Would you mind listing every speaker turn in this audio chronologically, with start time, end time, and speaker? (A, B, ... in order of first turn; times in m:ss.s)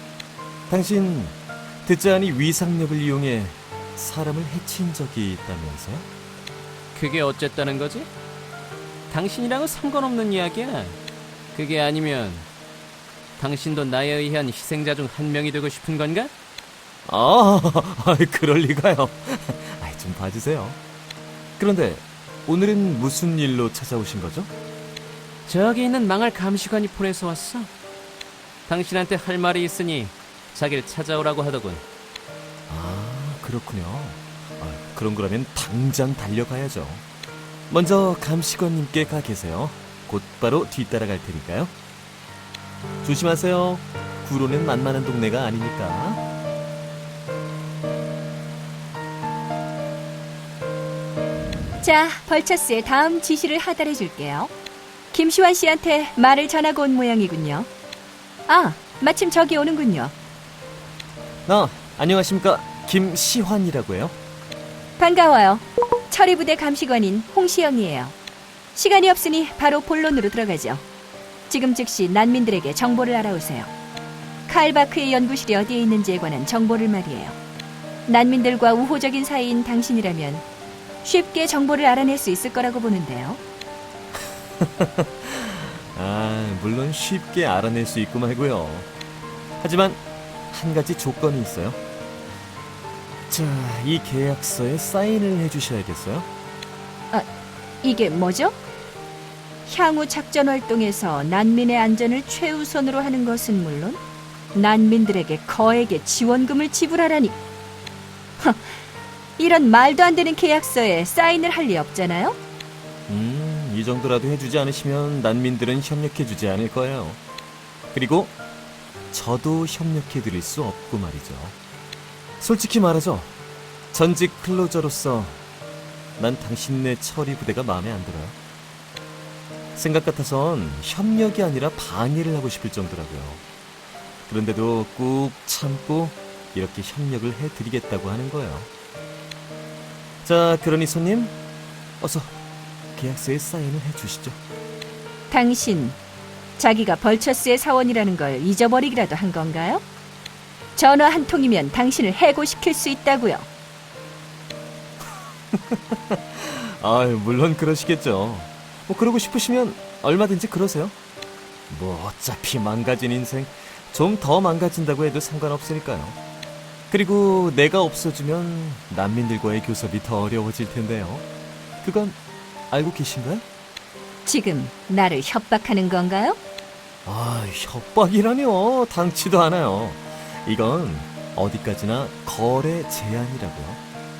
0:00.7-0:06.1 A
0:06.9-0:08.1 B
0:09.1-0:11.0 B
0:11.5-0:12.5 B
0:13.4-0:16.3 B
0:17.1-0:20.8 A
0:21.6-0:24.5 A
0:25.4-0:27.7 B
0:28.7-0:31.8 B
0:32.7-0:37.0 A
0:37.7-0:41.7 A
0:43.0-0:46.2 A
0:51.8-0:54.5 C
0:55.1-0:57.7 C
0:58.5-1:00.1 C
1:01.4-1:04.1 A
1:05.0-1:08.1 C
1:08.8-1:10.8 C
1:11.5-1:13.7 C
1:14.5-1:17.4 C
1:18.1-1:20.4 C
1:21.0-1:23.4 C
1:24.6-1:28.9 A
1:29.6-1:31.8 A
1:33.3-1:36.3 A
1:37.8-1:38.6 C
1:39.6-1:44.0 C
1:44.5-1:47.4 C
1:48.4-1:48.7 C
1:49.4-1:52.4 C
1:53.1-1:57.2 A
1:57.9-1:58.3 A
1:59.1-2:01.6 A
2:02.4-2:03.3 A
2:03.9-2:05.4 A
2:06.2-2:08.4 A
2:09.8-2:13.4 A
2:14.3-2:18.7 A
2:20.2-2:21.3 A
2:22.0-2:22.3 A
2:23.0-2:24.4 A
2:25.3-2:26.0 C
2:26.6-2:29.8 C
2:30.8-2:33.4 C
2:35.0-2:40.9 A
2:41.7-2:46.2 A
2:46.9-2:51.2 A
2:51.8-2:52.2 A
2:52.7-2:53.4 A
2:54.2-2:56.4 C
2:57.0-3:03.8 A